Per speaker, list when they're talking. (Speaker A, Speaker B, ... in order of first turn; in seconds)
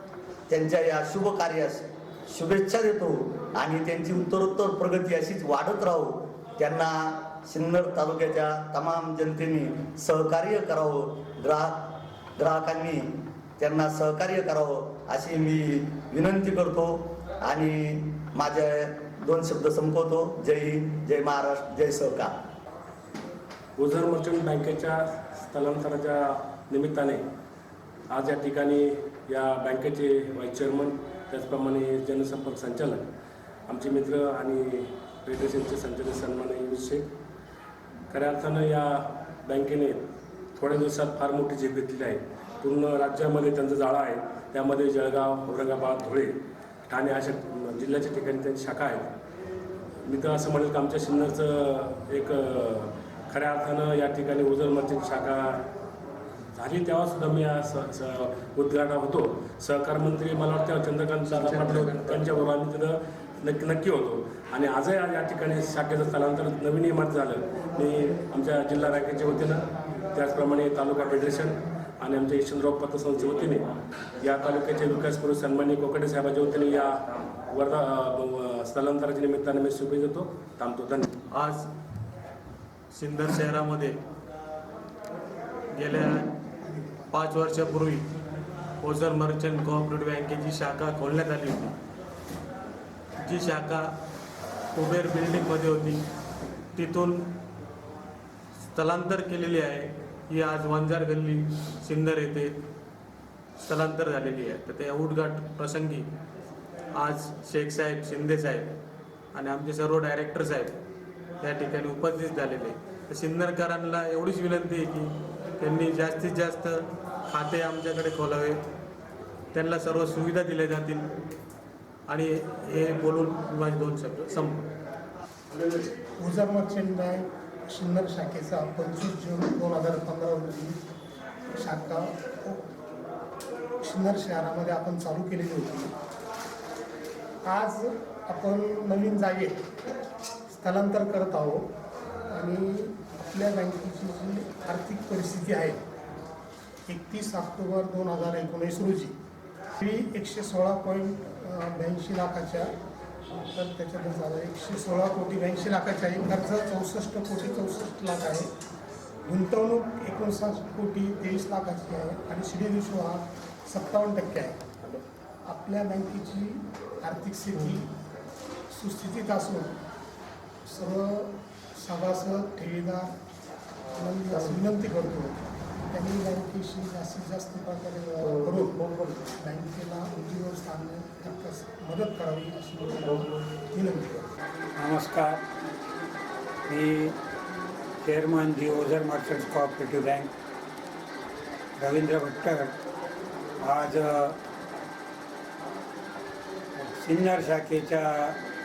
Speaker A: 0.5-22.3
Speaker B: 23.8-27.2, 28.1-33.0, 33.7-37.0, 38.1-40.0, 40.5-46.3, 46.9-49.1, 50.0-55.6, 56.5-73.6, 74.2-81.2
Speaker C: 61.2-62.3, 81.3-81.7, 82.9-84.0, 85.7-86.4, 87.1-88.1, 88.8-91.8, 93.2-94.0, 94.7-96.1, 96.7-97.3, 98.7-102.6, 103.6-106.1, 107.0-108.8, 109.3-110.8, 111.4-118.7, 119.5-121.1, 122.1-124.7, 178.6-179.2
Speaker D: 86.6-87.1, 126.2-130.8, 131.5-132.7, 133.8-135.9, 137.4-139.6, 140.5-141.7, 142.3-145.8, 146.9-149.2, 149.8-152.7, 153.5-158.5, 159.2-167.9, 168.7-169.7, 170.7-173.2, 173.9-184.3
Speaker E: 184.8-185.4, 186.7-187.2, 188.0-190.3, 191.8-192.7, 193.6-194.3, 196.8-198.3